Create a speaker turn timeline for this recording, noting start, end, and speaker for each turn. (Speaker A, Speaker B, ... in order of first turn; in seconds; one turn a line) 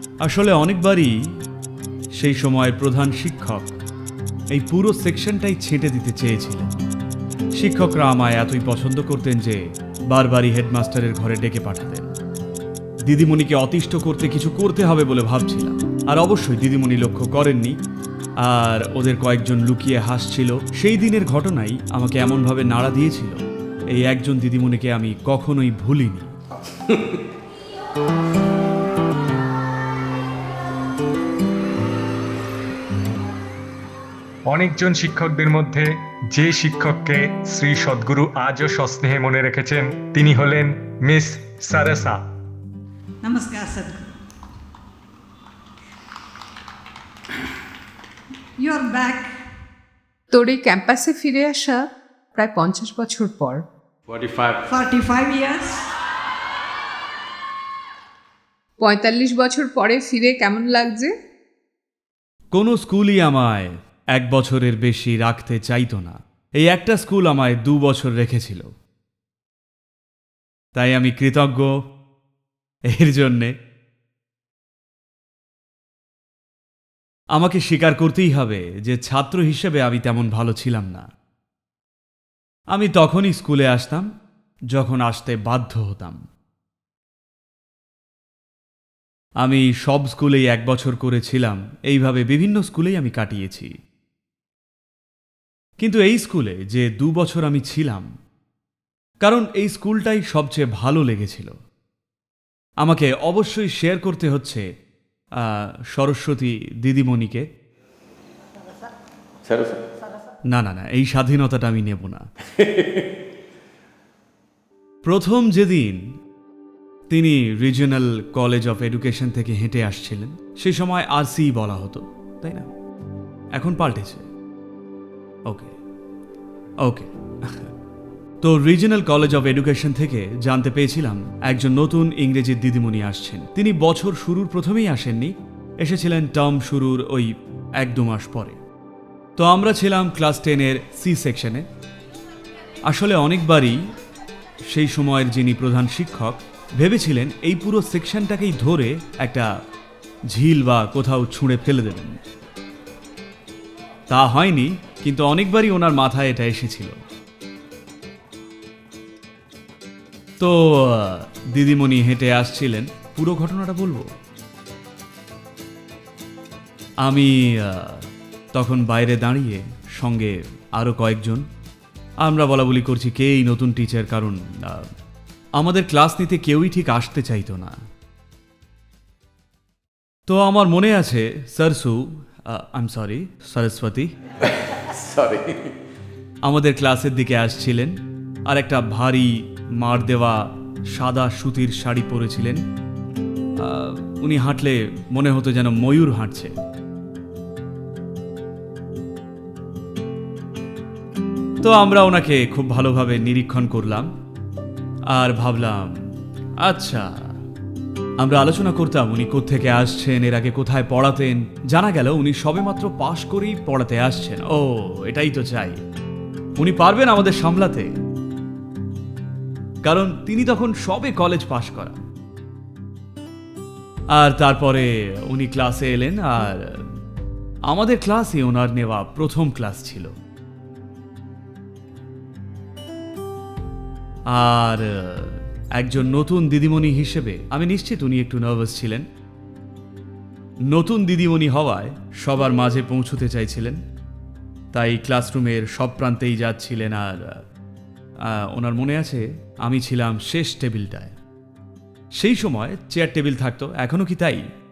Speaker A: 0.2-1.1
Speaker A: 2.2-3.8
Speaker A: 4.5-6.8
Speaker A: 7.5-12.1
Speaker A: 13.1-17.8
Speaker A: 18.4-23.4
Speaker A: 23.9-26.3
Speaker B: 34.5-42.2
Speaker C: 43.2-44.1
Speaker C: 48.6-49.3
Speaker D: 50.3-51.8
Speaker D: 52.3-53.6
Speaker E: 54.1-54.7
Speaker C: 54.7-55.9
Speaker D: 58.8-61.1
Speaker A: 62.5-68.7
Speaker A: 70.8-71.7
Speaker A: 72.9-73.5
Speaker A: 77.3-81.0
Speaker A: 82.7-84.1
Speaker A: 84.7-86.2
Speaker A: 89.4-93.7
Speaker A: 95.8-98.1
Speaker A: 99.2-101.5
Speaker A: 102.8-104.6
Speaker A: 105.9-107.4
Speaker E: 109.4-109.8
Speaker A: 110.5-112.2
Speaker E: 112.6-113.0
Speaker A: 115.0-116.0
Speaker A: 117.1-122.7
Speaker A: 123.6-124.2
Speaker A: 125.5-125.7
Speaker A: 126.8-127.7
Speaker A: 128.4-137.3
Speaker A: 137.8-138.6
Speaker A: 139.4-141.7
Speaker A: 142.9-143.8
Speaker A: 144.7-149.5
Speaker A: 150.3-152.2
Speaker A: 154.1-157.0
Speaker A: 160.4-164.1
Speaker A: 167.0-171.5
Speaker A: 172.2-174.9
Speaker A: 175.6-177.8
Speaker A: 180.3-184.1
Speaker E: 184.6-185.7
Speaker A: 186.4-187.9
Speaker A: 188.5-190.4
Speaker A: 190.9-192.6
Speaker A: 193.6-196.5
Speaker A: 201.6-204.1
Speaker A: 205.1-205.9
Speaker A: 206.6-207.1
Speaker A: 208.2-215.8
Speaker A: 216.6-217.9
Speaker A: 219.8-222.0
Speaker A: 224.1-226.8
Speaker A: 227.7-230.1
Speaker A: 234.3-239.1
Speaker A: 240.7-243.8
Speaker A: 244.7-247.3
Speaker A: 248.2-251.2
Speaker A: 252.2-254.4